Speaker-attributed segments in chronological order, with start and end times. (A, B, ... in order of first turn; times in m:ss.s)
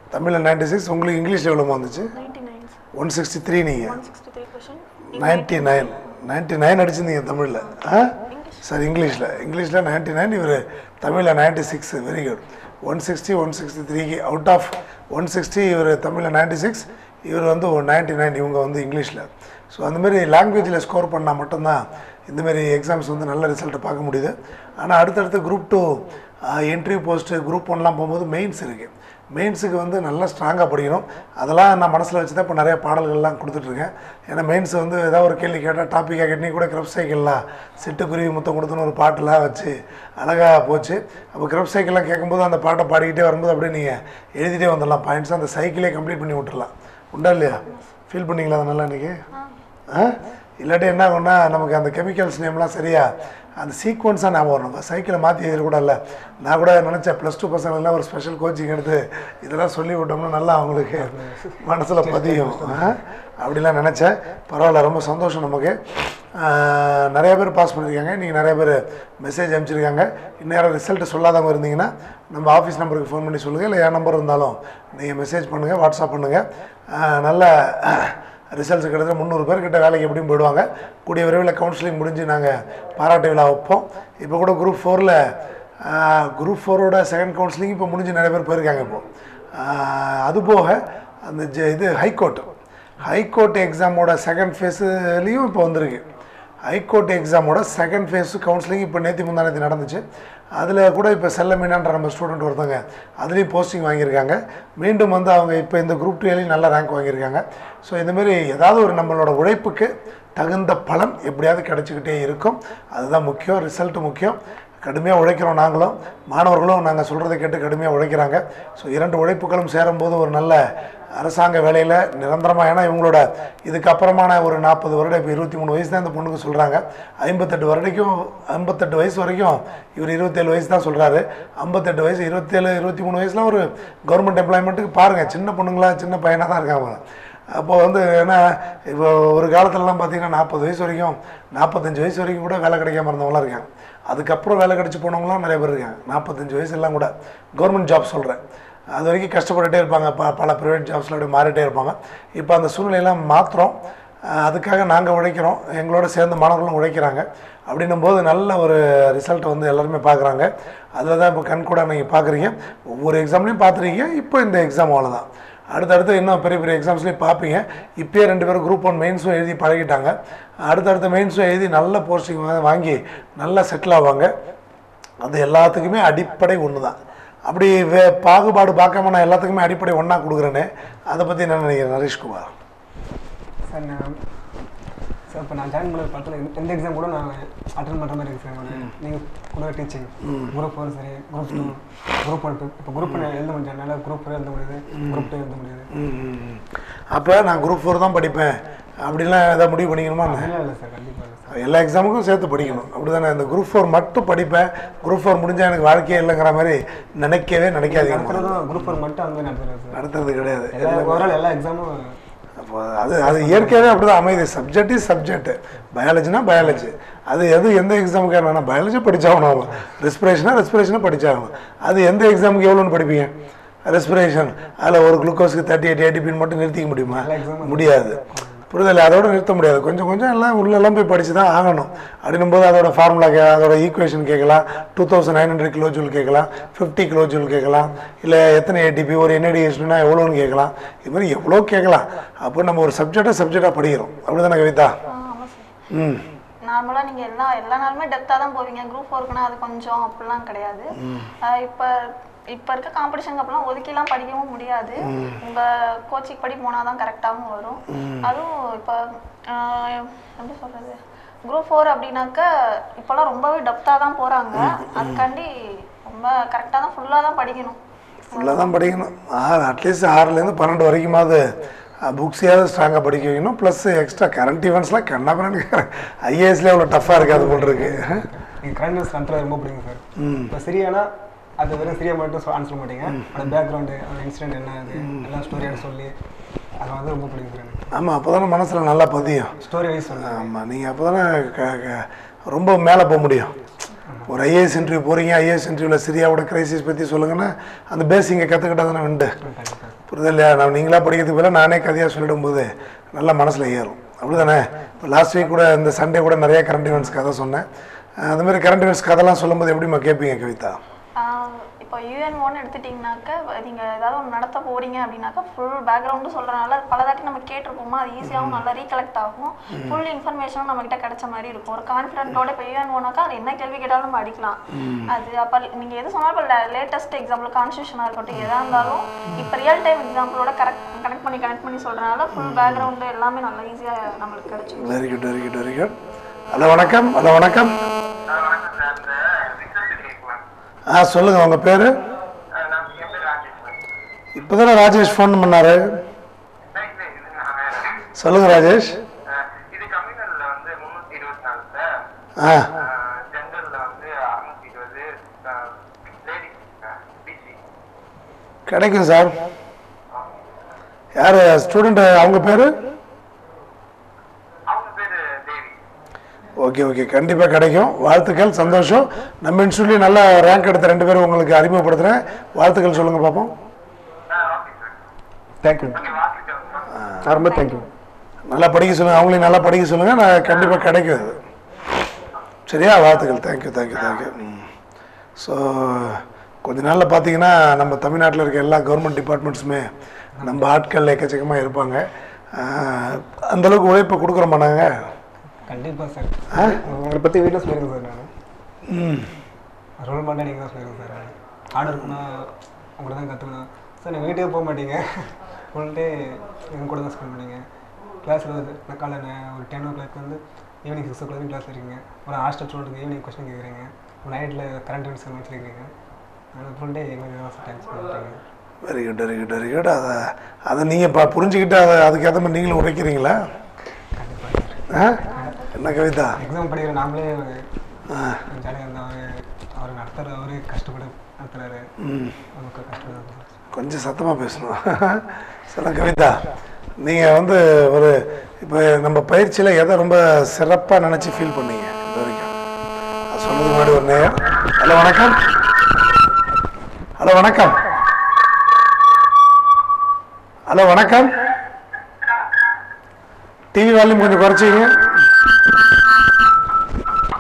0:00.1-0:02.1 A
0:02.1-0:02.8 B
0:02.9-0:04.0 A
0:03.8-0:05.9 B
0:05.1-0:49.2 A
0:07.6-0:09.4 B
0:49.3-0:49.6 B
0:49.9-1:05.8 A
1:00.9-1:03.0 C
1:06.3-1:25.2 A
1:25.8-1:32.4 A
1:33.0-1:36.0 A
1:36.6-1:40.0 A
1:40.5-2:00.6 A
2:01.1-2:28.4 A
2:28.9-2:33.8 A
2:34.3-2:54.3 A
2:55.2-3:02.5 A
3:03.7-3:04.2 C
3:05.3-3:15.9 C
3:10.2-3:10.6 A
3:15.0-3:15.3 A
3:15.9-3:20.5 A
3:20.2-3:21.6 C
3:21.5-3:28.7 A
3:27.9-3:30.0 C
3:29.9-3:31.3 A
3:30.7-3:32.2 C
3:32.6-3:43.3 A
3:33.2-3:34.0 C
3:36.6-3:36.8 C
3:39.6-3:39.9 C
3:43.8-3:48.2 A
3:47.1-3:48.7 C
3:48.7-4:04.9 A
4:05.1-4:05.7 B
4:05.9-4:06.2 A
4:06.7-4:27.8 B
4:11.0-4:11.3 A
4:15.0-4:15.4 A
4:17.9-4:18.3 A
4:24.5-4:25.2 A
4:28.3-4:28.9 B
4:28.3-4:31.4 A
4:32.0-4:38.2 A
4:37.0-4:41.1 C
4:40.2-4:40.5 A
4:41.6-4:46.1 C
4:43.1-4:43.5 A
4:45.0-4:45.2 A
4:46.8-4:47.9 C
4:47.9-4:49.5 A
4:49.6-4:50.5 C
4:50.2-4:53.6 A
4:54.1-4:54.3 C
4:54.3-4:59.3 A
4:59.4-5:00.0 C
5:00.1-5:07.6 A
5:08.2-5:10.8 A
5:11.2-5:35.0 B
5:18.2-5:18.6 A
5:19.7-5:20.0 A
5:24.7-5:25.1 A
5:32.3-5:32.9 A
5:34.8-5:35.9 A
5:36.5-5:37.8 A
5:38.3-5:40.4 D
5:40.9-5:42.0 A
5:42.5-5:43.8 D
5:44.3-5:46.0 A
5:46.7-5:48.0 D
5:48.2-5:49.0 A
5:49.3-5:51.9 D
5:52.4-5:52.7 A
5:52.7-5:57.6 D
5:58.7-5:59.4 A
6:01.2-6:02.8 A
6:04.7-6:05.8 D
6:06.6-6:13.5 A
6:14.3-6:15.0 D
6:15.6-6:16.0 C
6:15.9-6:16.9 D
6:17.0-6:17.2 A
6:17.2-6:17.9 C
6:17.4-6:17.8 B
6:18.5-6:21.4 A
6:22.7-6:24.7 A
6:25.4-6:29.9 A
6:30.4-6:30.6 C
6:30.4-6:35.0 A
6:35.6-6:38.3 C
6:36.5-6:36.8 A
6:38.9-6:39.3 A
6:40.0-6:47.6 C
6:41.8-6:42.2 A
6:48.2-6:55.9 C
6:56.5-6:58.4 C
6:58.8-7:03.4 A
7:04.2-7:04.8 C
7:04.9-7:06.4 A
7:05.3-7:05.8 B
7:06.3-7:07.6 C
7:08.1-7:08.4 A
7:08.5-7:11.9 C
7:12.0-7:12.4 A
7:12.5-7:13.5 C
7:13.7-7:16.4 A
7:17.0-7:22.5 A
7:23.3-7:25.4 A
7:27.2-7:27.8 A
7:30.7-7:31.4 A
7:33.7-7:35.3 A